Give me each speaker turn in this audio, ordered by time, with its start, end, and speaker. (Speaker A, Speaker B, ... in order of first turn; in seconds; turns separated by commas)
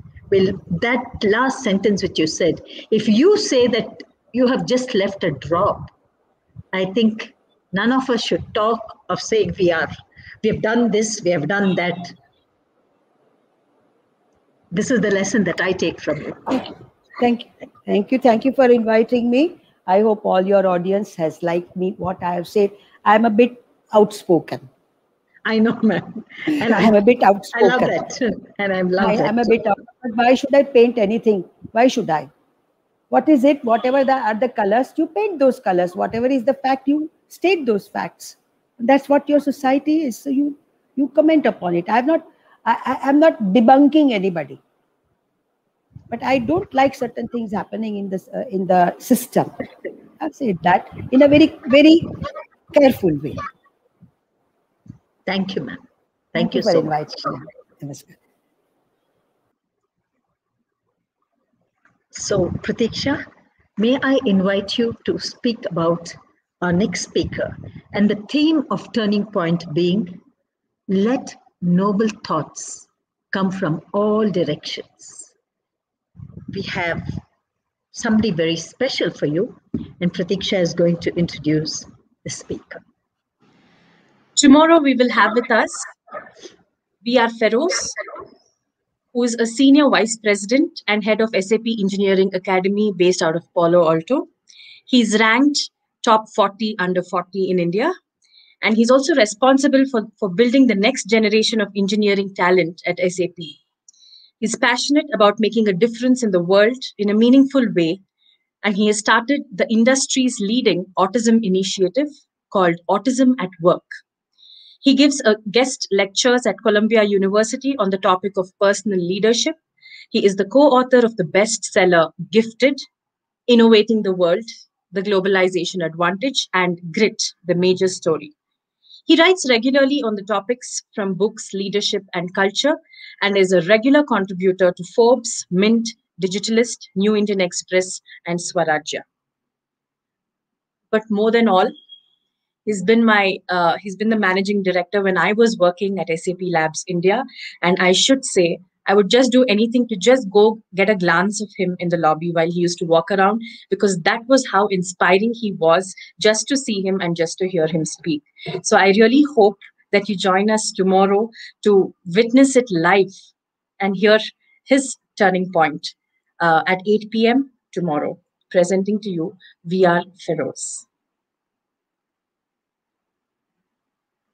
Speaker A: 0.3-5.9, Speaker A: 6.7-12.1, Speaker A: 14.7-16.7, Speaker B: 17.2-24.7, Speaker A: 25.4-26.9, Speaker B: 26.6-28.0, Speaker A: 27.5-29.6, Speaker B: 29.0-32.3, Speaker B: 33.1-44.6, Speaker B: 46.1-49.5, Speaker B: 50.2-53.4, Speaker A: 55.2-55.8, Speaker A: 56.3-57.3, Speaker B: 56.4-58.1, Speaker A: 62.1-63.2, Speaker A: 63.8-70.2, Speaker A: 70.9-75.3, Speaker A: 76.5-77.2, Speaker A: 77.9-82.8, Speaker C: 84.3-85.9, Speaker C: 87.0-88.0, Speaker C: 89.1-94.3, Speaker C: 94.9-97.9, Speaker C: 98.6-103.6, Speaker C: 104.4-108.0, Speaker C: 108.6-113.9, Speaker C: 114.8-119.6, Speaker C: 120.1-122.8, Speaker C: 123.5-128.3, Speaker C: 129.1-139.0, Speaker C: 140.9-141.7, Speaker C: 142.7-163.2, Speaker C: 163.8-170.8